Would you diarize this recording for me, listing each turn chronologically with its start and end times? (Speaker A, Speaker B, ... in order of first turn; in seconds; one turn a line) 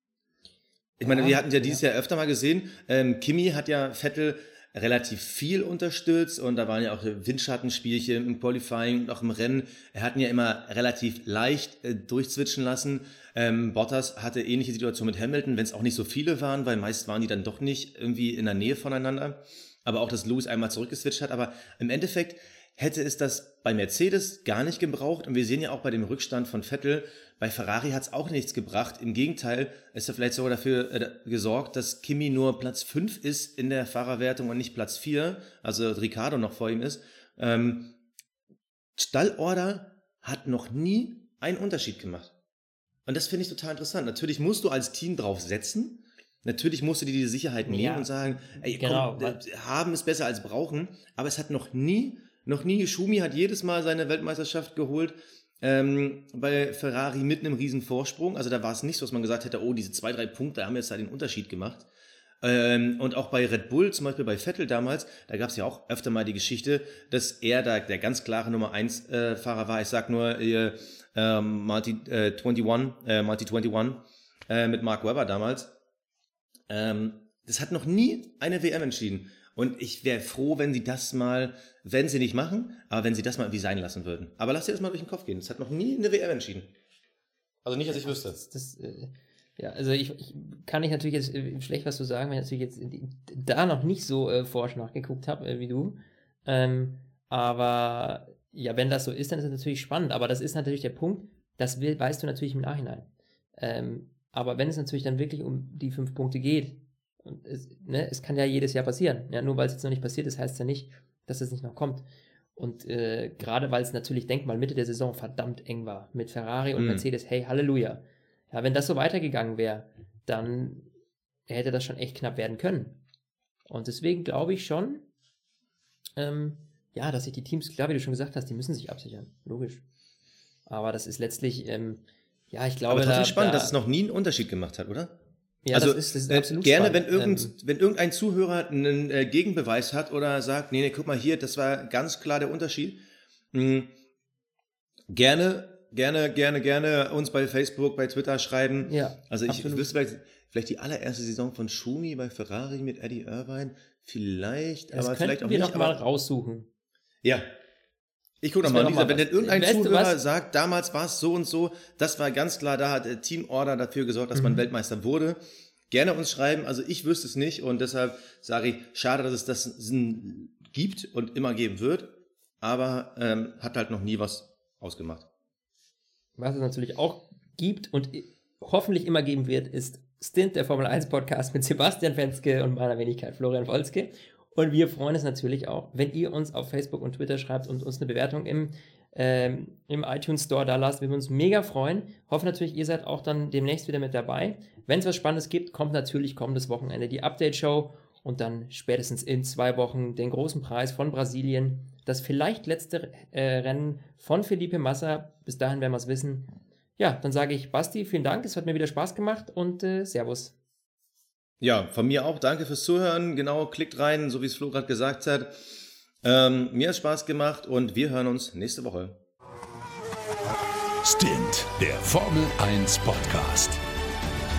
Speaker A: 1.0-38.0
Speaker B: 1.0-1.8
Speaker A: 39.0-42.3
Speaker A: 43.1-61.9
Speaker B: 47.7-49.4
Speaker A: 62.4-75.7
Speaker A: 76.7-86.7
Speaker A: 87.7-88.4
Speaker B: 87.9-120.9
Speaker A: 116.8-117.0
Speaker B: 121.5-123.0
Speaker B: 123.7-125.1
Speaker B: 126.2-129.8
Speaker B: 130.7-133.8
Speaker A: 132.9-135.2
Speaker B: 135.7-137.5
Speaker A: 135.7-143.0
Speaker A: 143.5-143.9
Speaker A: 145.1-156.0
Speaker B: 148.8-149.9
Speaker B: 154.9-156.7
Speaker A: 158.4-165.4
Speaker B: 158.6-160.2
Speaker B: 164.3-164.6
Speaker A: 165.9-175.3
Speaker B: 176.4-210.6
Speaker A: 211.6-215.5
Speaker A: 216.2-219.2
Speaker C: 221.0-223.8